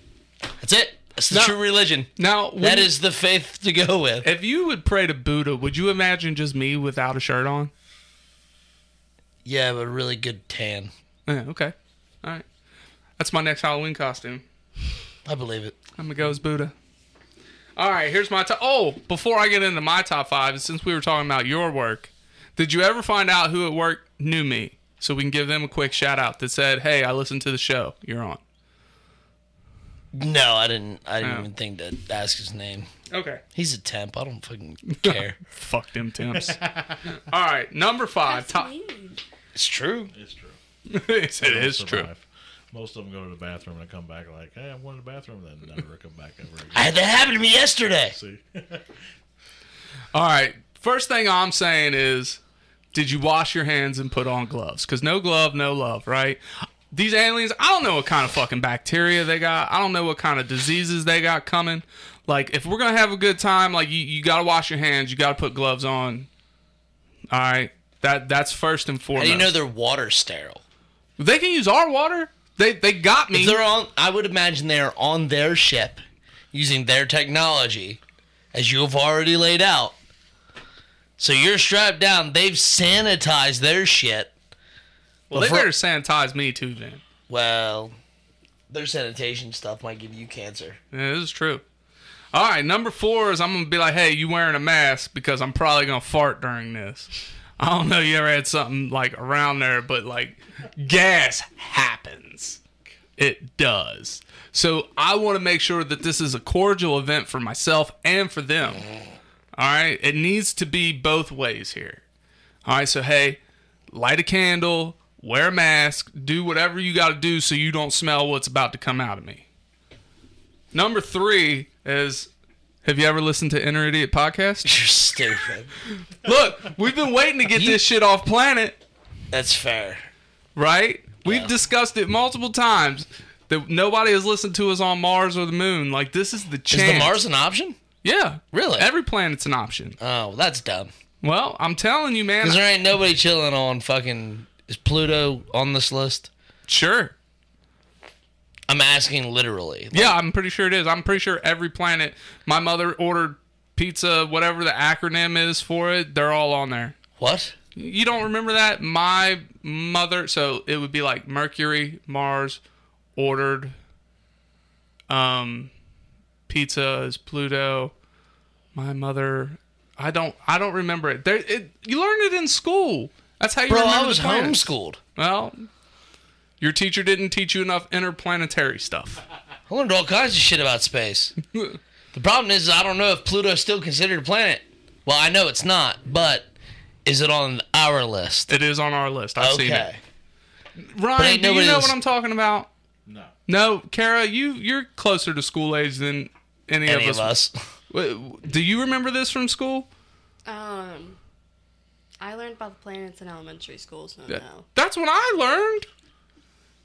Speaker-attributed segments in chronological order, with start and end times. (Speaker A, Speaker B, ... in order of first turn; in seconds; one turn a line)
Speaker A: 0.6-4.3
Speaker B: 1.3-1.6
Speaker B: 2.2-2.9
Speaker B: 4.2-7.7
Speaker A: 9.4-10.9
Speaker B: 11.3-12.4
Speaker B: 13.2-14.4
Speaker A: 15.3-15.8
Speaker B: 16.0-16.7
Speaker B: 17.8-28.4
Speaker A: 30.1-32.9
Speaker B: 31.2-31.5
Speaker B: 33.1-33.4
Speaker A: 33.5-35.4
Speaker B: 34.9-38.7
Speaker C: 36.4-37.0
Speaker D: 38.3-39.2
Speaker A: 39.5-40.1
Speaker C: 40.1-40.6
Speaker B: 40.9-42.1
Speaker C: 41.4-47.0
Speaker A: 46.7-48.1
Speaker C: 48.1-48.9
Speaker B: 50.1-52.4
Speaker B: 52.9-66.3
Speaker B: 67.3-69.5
Speaker A: 69.2-70.6
Speaker B: 71.2-73.6
Speaker A: 73.3-76.0
Speaker A: 76.5-78.0
Speaker A: 78.5-80.0
Speaker A: 81.2-84.3
Speaker B: 85.3-87.0
Speaker A: 85.3-85.7
Speaker A: 87.3-87.9
Speaker A: 88.7-90.8
Speaker B: 90.9-91.6
Speaker B: 92.3-102.6
Speaker B: 103.2-108.8
Speaker B: 109.5-112.0
Speaker B: 112.7-113.4
Speaker B: 113.9-119.5
Speaker B: 120.7-122.3
Speaker B: 122.8-124.7
Speaker A: 124.7-125.7
Speaker B: 126.0-128.8
Speaker A: 127.5-127.8
Speaker A: 129.3-130.1
Speaker B: 130.6-137.2
Speaker A: 131.2-131.5
Speaker A: 136.7-137.8
Speaker B: 138.0-140.0
Speaker A: 138.5-138.9
Speaker A: 140.0-140.9
Speaker B: 141.2-142.6
Speaker A: 142.4-146.3
Speaker B: 146.7-147.2
Speaker A: 148.7-150.2
Speaker B: 149.9-156.9
Speaker A: 157.2-157.6
Speaker B: 157.8-162.6
Speaker B: 163.2-163.8
Speaker B: 165.1-165.7
Speaker B: 166.5-167.9
Speaker B: 168.7-175.7
Speaker A: 173.7-175.0
Speaker B: 176.6-179.2
Speaker A: 179.7-181.3
Speaker B: 181.5-181.8
Speaker A: 182.1-186.5
Speaker A: 187.1-188.5
Speaker B: 188.5-189.9
Speaker A: 189.4-190.0
Speaker B: 190.8-192.7
Speaker A: 191.2-191.9
Speaker C: 193.1-193.3
Speaker B: 193.5-197.3
Speaker A: 196.9-197.6
Speaker B: 197.9-199.9
Speaker D: 200.5-201.2
Speaker D: 202.2-204.7
Speaker B: 204.3-205.9